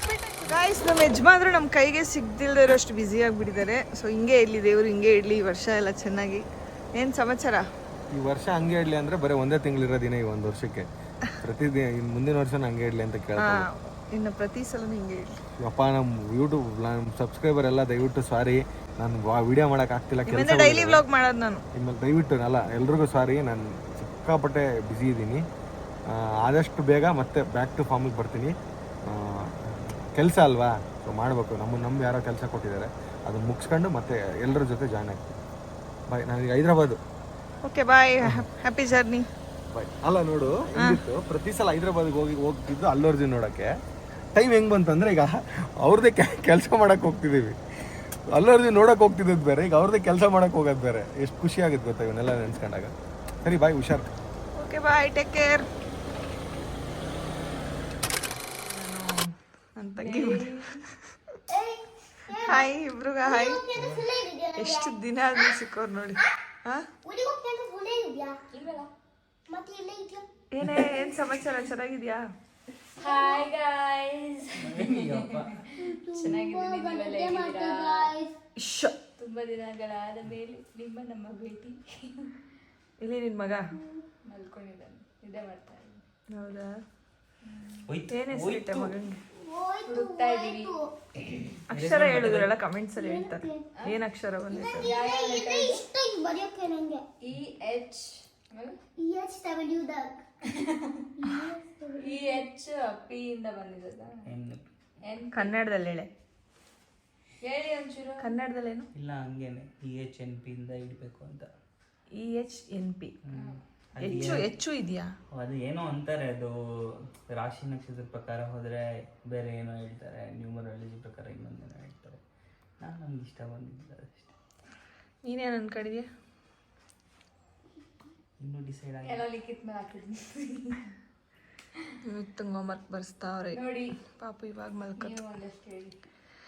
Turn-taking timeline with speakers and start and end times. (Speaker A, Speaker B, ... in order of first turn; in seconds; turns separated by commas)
Speaker A: 0.5-6.5, Speaker A: 7.0-7.7, Speaker B: 8.1-10.9, Speaker B: 11.4-13.7, Speaker A: 13.4-15.4, Speaker B: 15.6-21.1, Speaker A: 20.3-21.6, Speaker B: 21.8-25.4, Speaker B: 26.1-28.5, Speaker B: 29.1-29.5, Speaker B: 30.1-35.4, Speaker B: 36.1-37.0, Speaker A: 37.6-39.3, Speaker B: 39.7-43.7, Speaker B: 44.4-47.5, Speaker B: 48.3-52.9, Speaker B: 53.4-54.1, Speaker A: 54.6-55.7, Speaker A: 58.7-60.5, Speaker C: 60.0-60.8, Speaker D: 61.5-62.7, Speaker A: 62.5-63.6, Speaker D: 63.2-65.5, Speaker E: 63.8-64.1, Speaker A: 64.6-66.9, Speaker D: 67.0-68.4, Speaker C: 68.5-68.9, Speaker D: 69.5-70.2, Speaker A: 70.5-72.2, Speaker C: 73.0-75.5, Speaker D: 73.0-73.4, Speaker E: 74.6-75.6, Speaker D: 75.8-78.3, Speaker C: 76.2-78.1, Speaker A: 78.6-79.0, Speaker C: 79.2-82.3, Speaker A: 83.0-83.7, Speaker C: 84.2-86.0, Speaker A: 86.3-86.8, Speaker C: 87.5-87.8, Speaker E: 87.9-89.0, Speaker A: 88.1-89.2, Speaker D: 89.4-90.9, Speaker C: 89.8-90.7, Speaker E: 91.7-92.6, Speaker A: 91.7-94.9, Speaker D: 93.0-93.7, Speaker D: 94.5-97.0, Speaker C: 94.8-95.8, Speaker C: 97.2-98.8, Speaker D: 99.0-100.2, Speaker D: 101.2-102.5, Speaker C: 102.0-104.3, Speaker E: 104.3-104.7, Speaker C: 105.0-105.6, Speaker A: 105.3-106.1, Speaker C: 107.4-108.4, Speaker A: 108.2-108.9, Speaker E: 108.9-111.5, Speaker A: 112.1-113.2, Speaker E: 113.3-114.5, Speaker C: 113.3-113.6, Speaker A: 114.0-115.1, Speaker E: 115.3-116.6, Speaker E: 117.2-122.2, Speaker E: 122.8-124.3, Speaker A: 125.2-126.1, Speaker E: 128.4-129.3, Speaker C: 129.0-130.8, Speaker A: 132.1-135.3, Speaker C: 133.5-134.0, Speaker C: 135.0-136.0